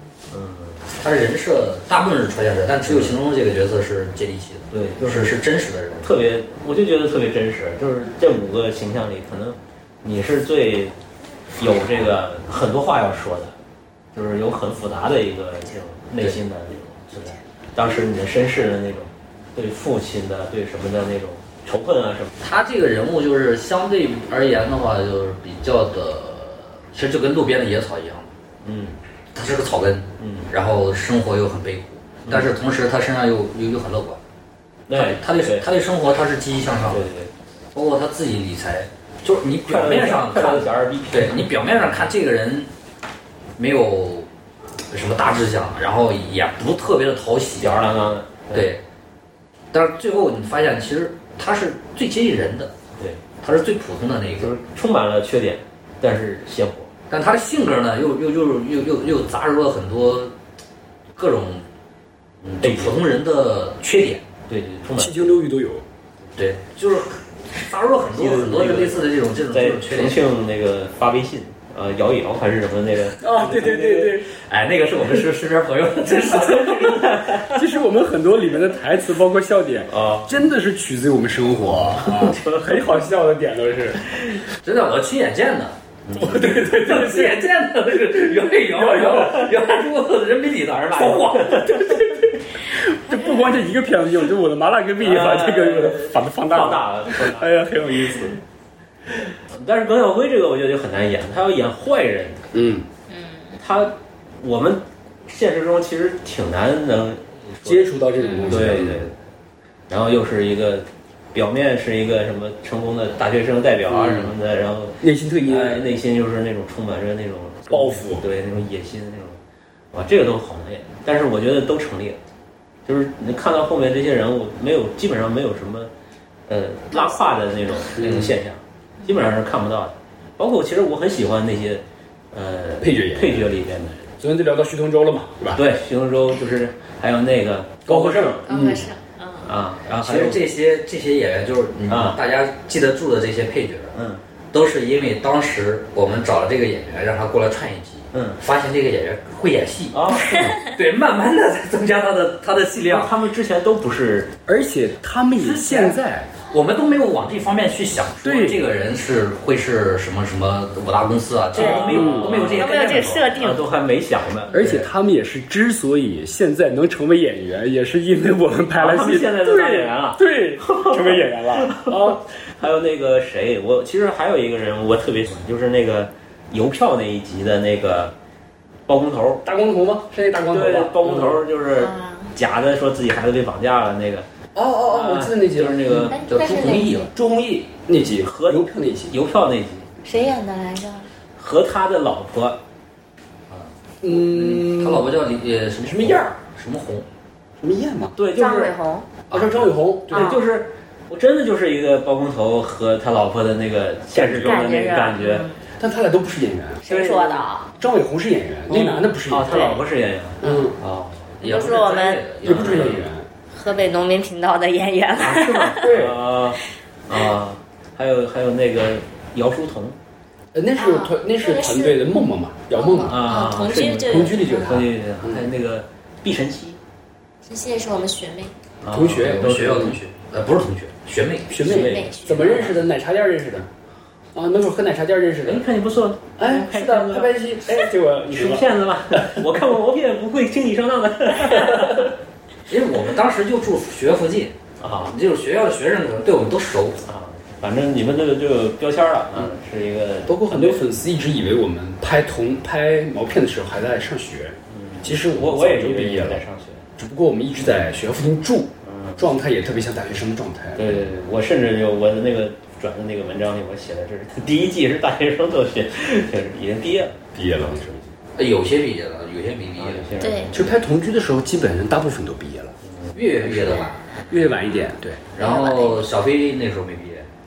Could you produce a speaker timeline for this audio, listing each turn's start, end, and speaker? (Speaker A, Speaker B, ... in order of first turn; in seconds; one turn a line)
Speaker A: 0.3-0.8
Speaker B: 0.9-6.1
Speaker A: 2.9-3.1
Speaker A: 4.7-5.4
Speaker A: 6.0-10.9
Speaker A: 11.6-13.5
Speaker A: 14.1-22.3
Speaker B: 22.4-28.3
Speaker A: 28.6-29.0
Speaker B: 29.3-34.2
Speaker A: 30.2-30.5
Speaker A: 34.9-35.7
Speaker B: 34.9-37.0
Speaker A: 36.9-37.3
Speaker B: 37.7-42.7
Speaker A: 39.6-41.5
Speaker B: 43.6-44.3
Speaker B: 44.9-47.8
Speaker A: 47.6-48.7
Speaker B: 48.5-48.8
Speaker B: 49.7-52.7
Speaker B: 53.4-54.6
Speaker A: 54.4-56.9
Speaker B: 57.1-60.3
Speaker B: 61.1-61.6
Speaker B: 62.4-64.2
Speaker A: 62.6-63.0
Speaker A: 64.5-65.4
Speaker C: 65.0-65.8
Speaker B: 66.4-70.2
Speaker A: 68.2-74.1
Speaker C: 73.2-74.3
Speaker B: 74.3-77.3
Speaker A: 76.4-77.6
Speaker C: 77.4-84.0
Speaker A: 79.9-80.3
Speaker A: 81.9-83.0
Speaker B: 84.6-91.9
Speaker A: 86.1-86.5
Speaker C: 86.1-87.4
Speaker C: 88.4-89.5
Speaker A: 90.7-92.0
Speaker C: 92.0-98.4
Speaker A: 95.0-97.5
Speaker A: 99.3-102.4
Speaker C: 102.5-102.9
Speaker D: 103.1-103.6
Speaker A: 103.6-107.9
Speaker C: 107.6-109.1
Speaker D: 108.2-108.5
Speaker A: 108.5-109.2
Speaker A: 109.9-119.4
Speaker C: 113.9-114.3
Speaker C: 115.0-115.9
Speaker C: 117.7-118.2
Speaker A: 119.9-122.2
Speaker A: 122.8-125.9
Speaker A: 126.5-134.1
Speaker D: 126.9-127.2
Speaker B: 128.0-128.3
Speaker C: 132.8-133.5
Speaker C: 134.2-135.6
Speaker A: 135.5-138.5
Speaker C: 137.8-138.9
Speaker D: 138.5-139.5
Speaker A: 139.4-140.4
Speaker B: 140.0-143.9
Speaker A: 141.9-142.2
Speaker A: 143.9-144.2
Speaker B: 144.5-153.1
Speaker A: 148.1-148.4
Speaker A: 149.9-150.6
Speaker A: 152.8-154.3
Speaker C: 154.5-156.3
Speaker B: 155.4-163.3
Speaker C: 158.2-158.6
Speaker A: 161.5-164.8
Speaker D: 161.5-163.7
Speaker C: 161.8-162.5
Speaker C: 164.5-172.2
Speaker A: 168.7-178.1
Speaker A: 178.9-179.4
Speaker C: 179.4-181.4
Speaker A: 180.5-184.2
Speaker D: 181.8-182.3
Speaker C: 184.5-186.2
Speaker A: 184.8-186.2
Speaker D: 186.1-187.1
Speaker B: 186.3-187.1
Speaker C: 187.0-189.1
Speaker A: 188.2-189.9
Speaker D: 190.0-191.1
Speaker A: 191.4-192.6
Speaker B: 193.5-197.1
Speaker C: 194.0-195.1
Speaker C: 195.8-196.3
Speaker C: 197.6-198.1
Speaker A: 198.2-198.7
Speaker D: 198.3-199.1
Speaker C: 199.3-200.3
Speaker B: 199.3-199.6
Speaker A: 200.1-205.4
Speaker D: 200.1-200.4
Speaker C: 204.1-204.8
Speaker D: 204.3-205.6
Speaker C: 205.8-209.8
Speaker D: 206.8-207.7
Speaker A: 206.9-207.3
Speaker A: 208.7-211.1
Speaker C: 210.4-210.8
Speaker D: 210.4-210.7
Speaker B: 211.3-213.0
Speaker D: 211.4-212.2
Speaker C: 212.4-213.3
Speaker A: 212.4-213.0
Speaker D: 213.5-215.9
Speaker A: 215.2-220.0
Speaker C: 215.8-216.2
Speaker C: 220.5-223.3
Speaker D: 220.8-222.2
Speaker D: 222.7-224.8
Speaker A: 223.1-226.8
Speaker C: 223.8-225.5
Speaker D: 227.4-228.5
Speaker A: 228.8-229.9
Speaker C: 228.9-229.9
Speaker B: 229.0-231.6
Speaker C: 231.5-233.7
Speaker A: 231.6-232.8
Speaker D: 231.7-232.7
Speaker C: 234.3-235.6
Speaker A: 235.4-242.1
Speaker C: 236.4-239.4
Speaker B: 242.7-247.0
Speaker A: 244.8-245.2
Speaker A: 247.0-250.8
Speaker C: 250.2-256.4
Speaker A: 254.7-256.8
Speaker C: 257.0-261.1
Speaker A: 258.8-259.3
Speaker A: 260.8-267.2
Speaker C: 267.3-268.1
Speaker B: 268.3-270.1
Speaker A: 269.8-270.8
Speaker D: 270.2-270.5
Speaker C: 270.5-272.7
Speaker B: 273.1-274.0
Speaker C: 273.4-275.2
Speaker B: 275.4-277.3
Speaker D: 275.4-276.1